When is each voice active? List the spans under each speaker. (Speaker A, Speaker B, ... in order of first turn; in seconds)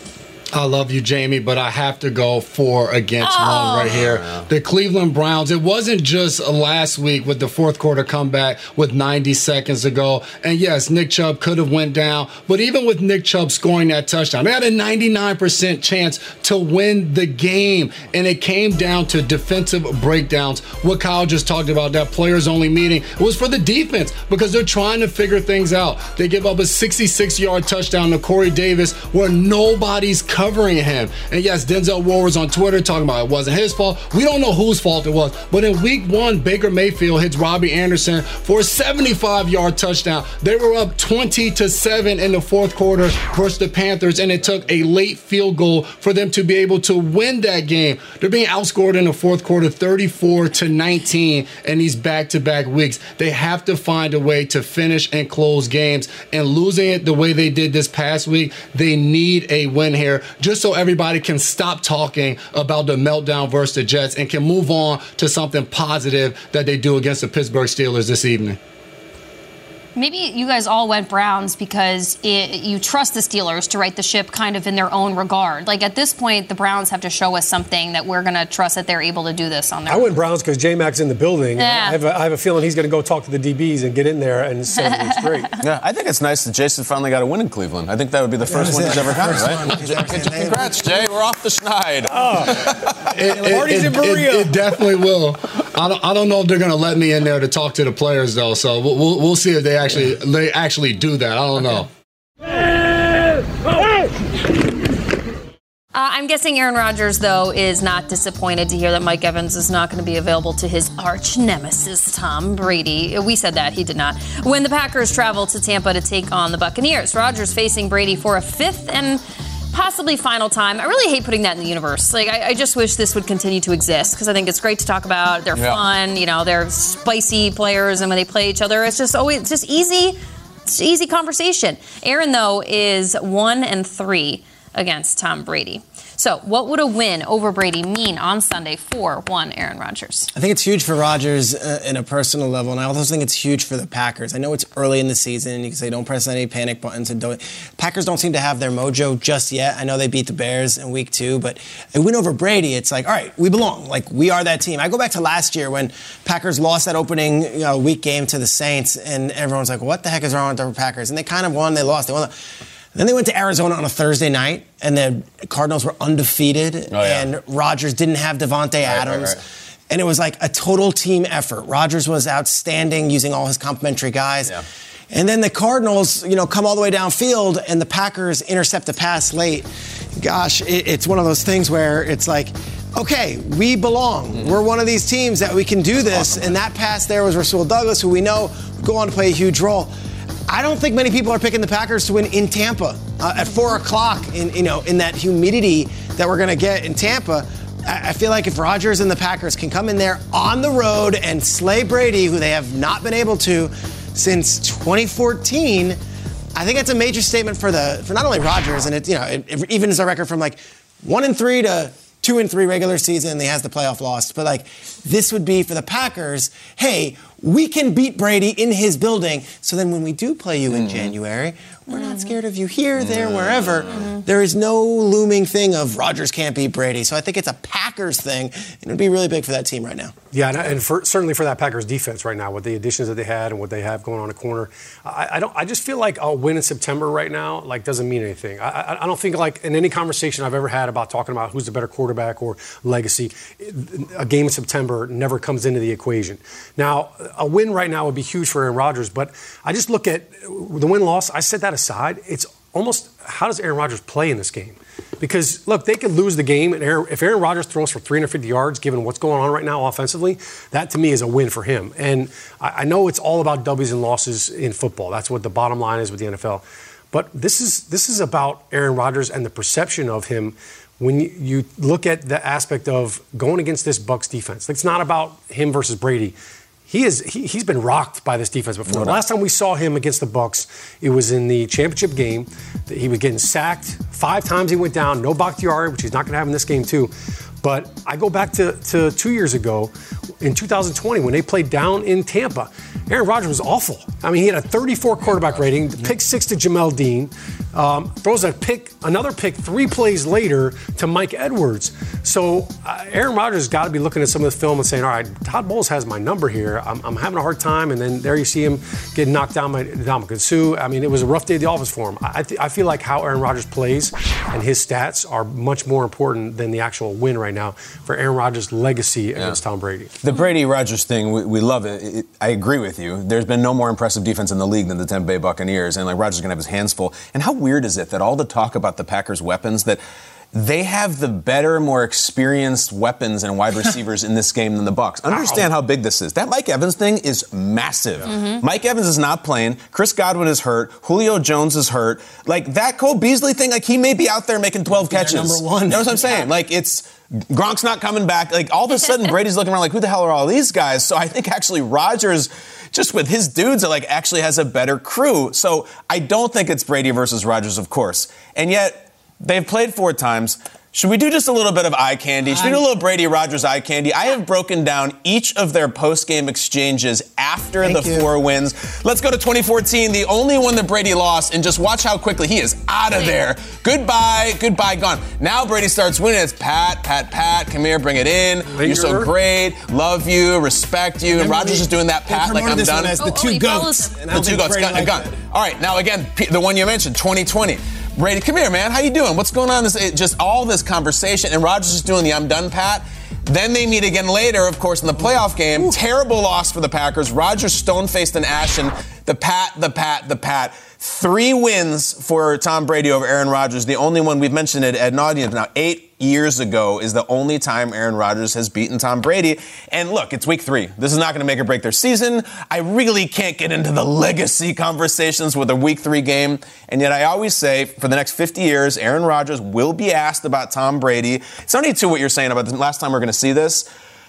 Speaker A: 0.5-68.6, 93.1-101.9
Speaker B: 3.2-4.0, 70.0-80.1, 81.6-82.0, 84.8-85.1, 105.9-140.3, 221.9-222.3, 338.2-338.6, 383.2-384.1
Speaker C: 3.9-4.5, 85.6-93.0, 125.5-125.8, 166.9-167.3, 168.9-169.4, 220.7-221.1, 223.0-223.9, 278.9-279.2, 320.2-330.0, 330.5-383.2, 384.2-423.9
Speaker D: 79.9-85.5, 92.1-94.7, 230.3-276.3, 276.9-320.1, 378.7-379.3
Speaker E: 88.4-90.8, 140.3-162.3, 162.9-169.4, 169.9-174.6, 175.1-189.9, 190.5-206.0, 206.5-230.1, 344.9-346.4, 362.5-362.8, 367.8-368.3, 381.3-385.3